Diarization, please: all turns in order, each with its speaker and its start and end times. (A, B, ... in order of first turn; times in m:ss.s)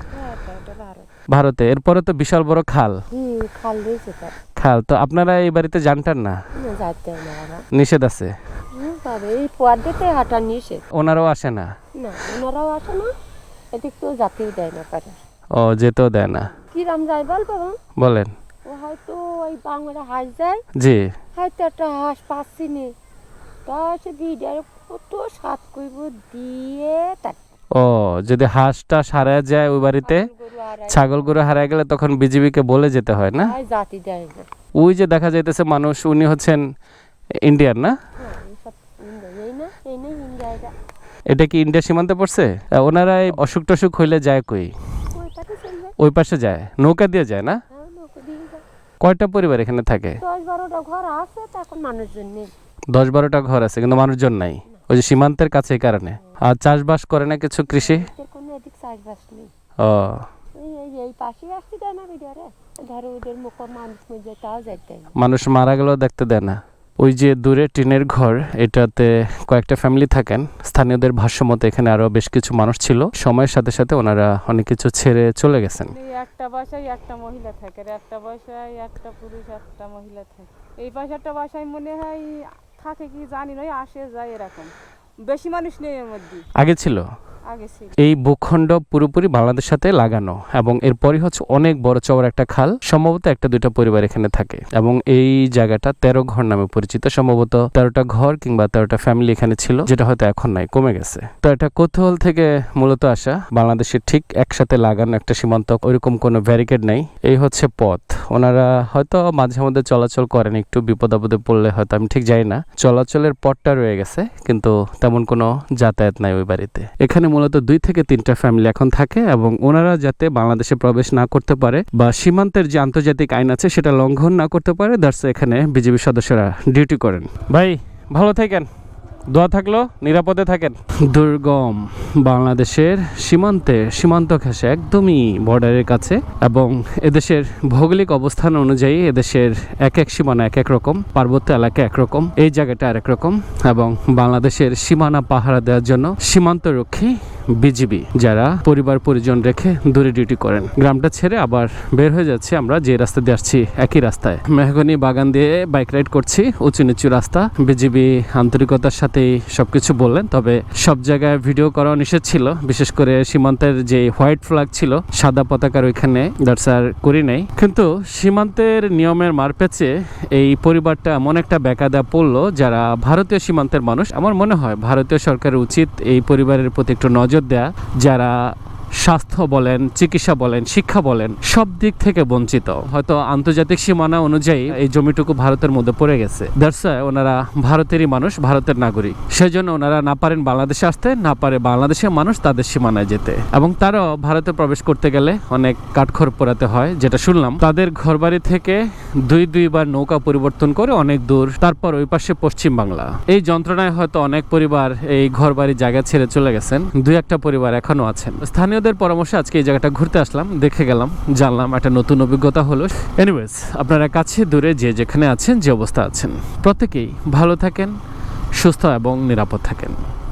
0:00.1-0:01.1 A
0:01.3-0:03.0 B
0:03.1-0:04.4 A
0:04.6-0:06.4 B
0:06.6-0:07.7 A
0:07.7-0:08.3 B
0:08.7-0:10.8 A
0:10.9-0:11.7 B
0:12.0-0:13.1 A
0:13.7-0:15.2 A
0:15.6-0:16.5 B
0:16.6-0:17.8 A
0:18.0-0:18.3 B
0:18.7-0:20.6 A
0:20.8-0:21.1 B
0:21.4-0:23.0 A
0:23.7-0:27.4 A
0:27.7-0:30.3 B
0:30.0-0:31.4 A
0:30.9-0:33.5 B
0:33.4-0:34.5 A
0:34.8-0:36.6 B
0:37.4-0:38.0 B
0:38.2-0:40.7 A
0:41.3-0:44.7 B
0:45.1-0:46.0 A
0:46.0-0:47.6 B
0:47.7-0:48.6 A
0:49.0-0:50.2 B
0:50.2-0:52.5 A
0:52.9-0:58.1 B
0:57.7-0:59.5 A
0:59.8-1:00.3 B
1:00.6-1:05.2 A
1:05.2-1:15.9 B
1:16.0-1:26.5 C
1:26.6-1:27.1 B
1:27.5-1:28.0 C
1:28.0-2:08.7 B
2:09.3-3:38.0 B
3:38.6-3:40.0 B